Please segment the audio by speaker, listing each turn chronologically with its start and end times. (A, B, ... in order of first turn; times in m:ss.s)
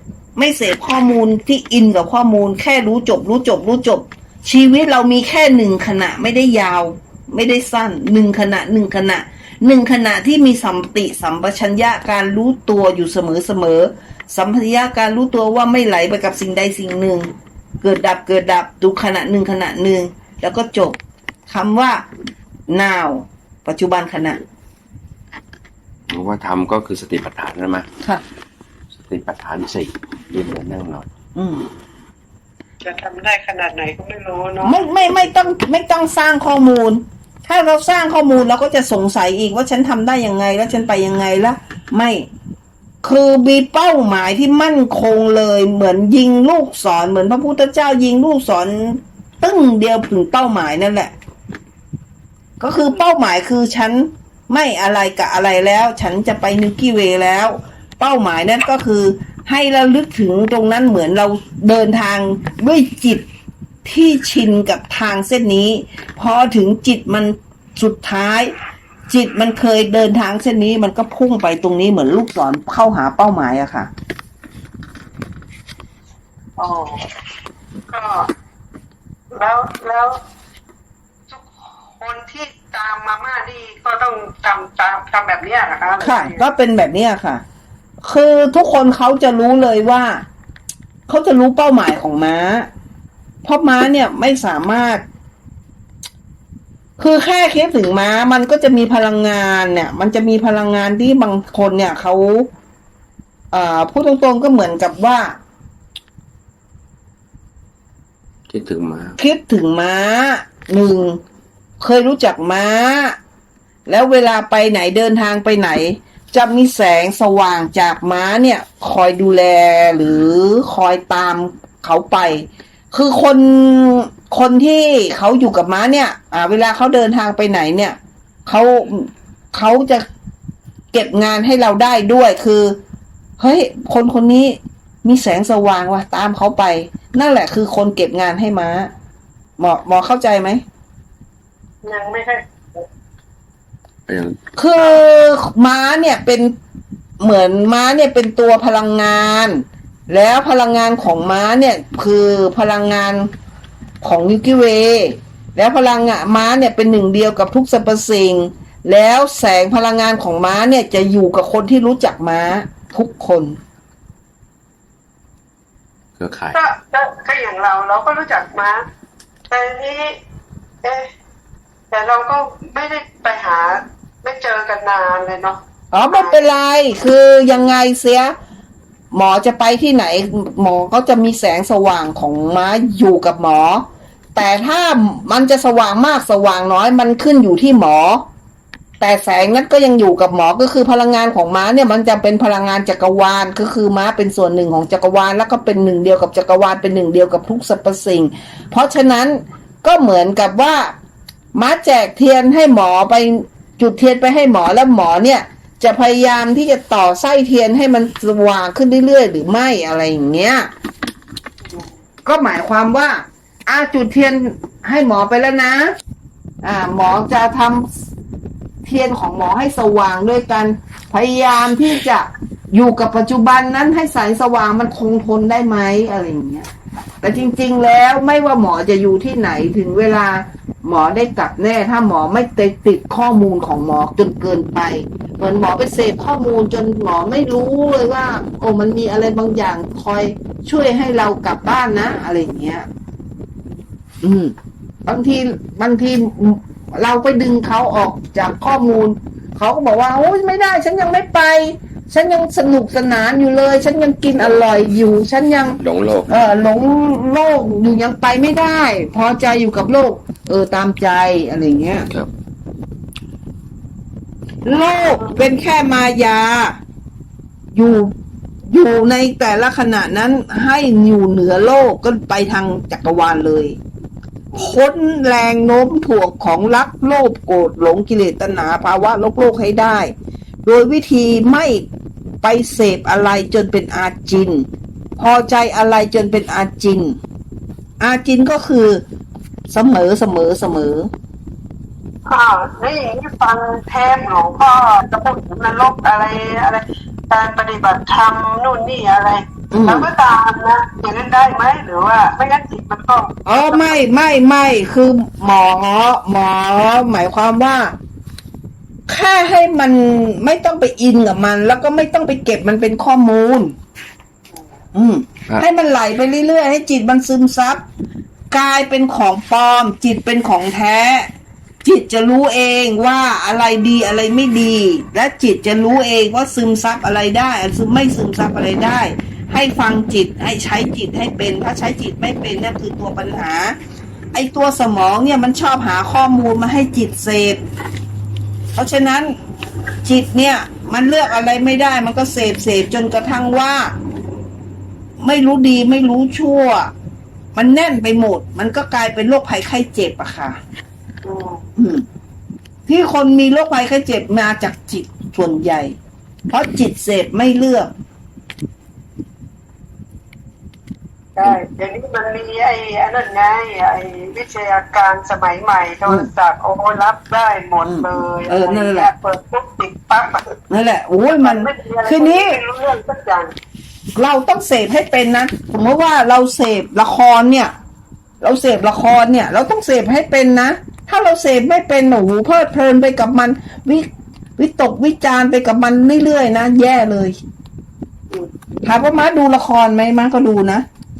0:00.4-0:22.0 A
0:22.7-0:24.4 A
0:26.1-0:27.9 B
0:29.0-0:31.1 B
0:31.3-0:31.6 A
0:32.8-0:35.2 C
0:34.6-0:42.3 A
0:43.0-0:51.1 A
0:52.6-1:03.2 A
1:03.8-1:08.5 A
1:09.1-1:13.9 A
1:16.6-1:17.1 C
1:17.9-1:18.3 C
1:19.3-1:20.2 C
1:21.3-1:26.4 C
1:26.0-1:27.4 A
1:28.0-1:30.2 A
1:31.1-1:32.7 A
1:33.4-1:35.0 A
1:37.0-1:42.5 A
1:43.5-1:45.4 A
1:48.5-1:49.2 B
1:49.2-1:51.2 A
1:51.8-1:53.2 A
1:53.9-2:10.0 A
2:10.9-2:12.8 A
2:13.4-2:18.9 A
2:19.6-2:20.6 A
2:21.8-2:22.8 C
2:24.1-2:24.4 B
2:24.6-2:26.5 A
2:27.2-2:33.3 A
2:34.0-2:43.6 A
2:46.2-2:46.6 B
2:46.5-2:48.8 C
2:49.5-2:50.2 C
2:50.8-2:51.1 C
2:51.9-2:56.5 C
2:55.9-2:58.3 A
2:59.1-3:08.2 A
3:09.0-3:20.9 A
3:21.5-3:30.7 A
3:32.2-3:35.9 A
3:36.6-3:37.9 A
3:38.8-3:46.7 A
3:47.2-4:02.9 A
4:04.2-4:04.5 A
4:05.0-4:22.1 A
4:14.4-4:14.7 B
4:15.8-4:16.5 B
4:24.6-4:26.8 A
4:27.7-4:28.1 A
4:28.7-4:33.8 A
4:34.6-4:40.1 A
4:40.6-4:41.9 A
4:42.4-4:44.6 A
4:45.2-4:47.2 A
4:48.0-4:49.0 A
4:49.7-4:51.1 A
4:52.3-5:04.0 C
4:59.7-5:00.1 A
5:03.4-5:08.0 A
5:09.1-5:13.7 A
5:14.9-5:17.8 A
5:18.5-5:21.3 A
5:21.8-5:33.7 A
5:34.3-5:37.6 A
5:38.7-5:39.3 A
5:40.0-5:43.9 A
5:45.2-5:46.9 A
5:47.5-5:50.6 A
5:51.2-5:51.6 C
5:51.8-5:52.0 A
5:52.9-5:55.9 A
5:56.5-5:57.9 A
6:01.4-6:10.6 C
6:07.8-6:09.1 A
6:10.7-6:12.6 A
6:11.4-6:13.5 C
6:14.1-6:17.7 A
6:18.4-6:27.4 A
6:28.8-6:30.8 A